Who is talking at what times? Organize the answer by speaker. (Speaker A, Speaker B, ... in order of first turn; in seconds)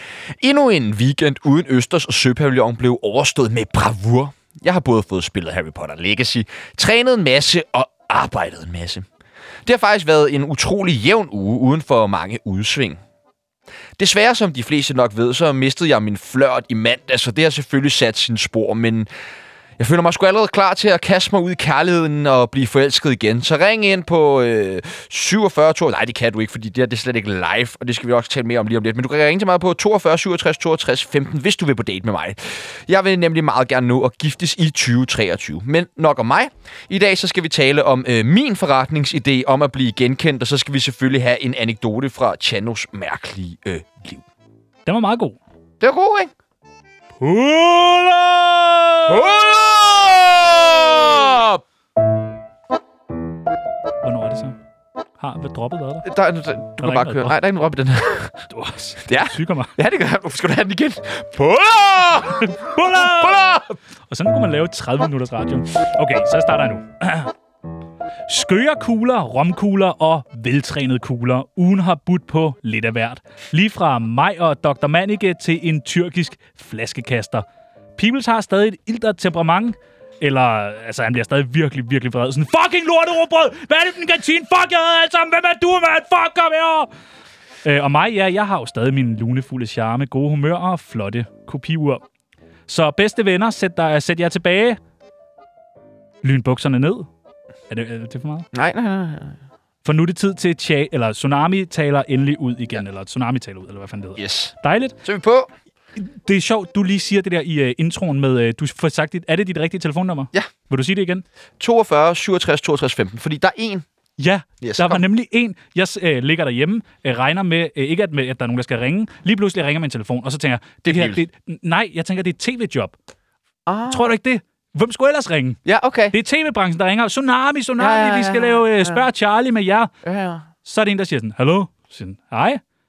Speaker A: 0.4-9.1, 9.7-13.0, 14.0-19.1, 19.8-44.2, 45.8-46.3, 49.1-51.6, 56.0-58.5, 59.1-63.8, 98.5-99.4, 104.2-105.5, 111.6-113.9, 114.6-115.0, 120.8-121.2, 123.7-124.1, 125.7-126.2, 127.8-129.1, 130.0-130.5
Speaker B: 44.9-45.4, 47.2-49.2, 54.0-54.6, 55.2-56.1, 56.8-57.4, 58.5-59.8, 62.4-63.5, 64.1-67.3, 68.3-77.5, 78.0-86.9, 87.6-92.0, 92.7-94.8, 96.2-97.1, 97.7-98.5, 99.8-105.0, 106.0-111.2, 114.2-123.0, 123.9-125.6, 126.1-129.9, 130.6-132.6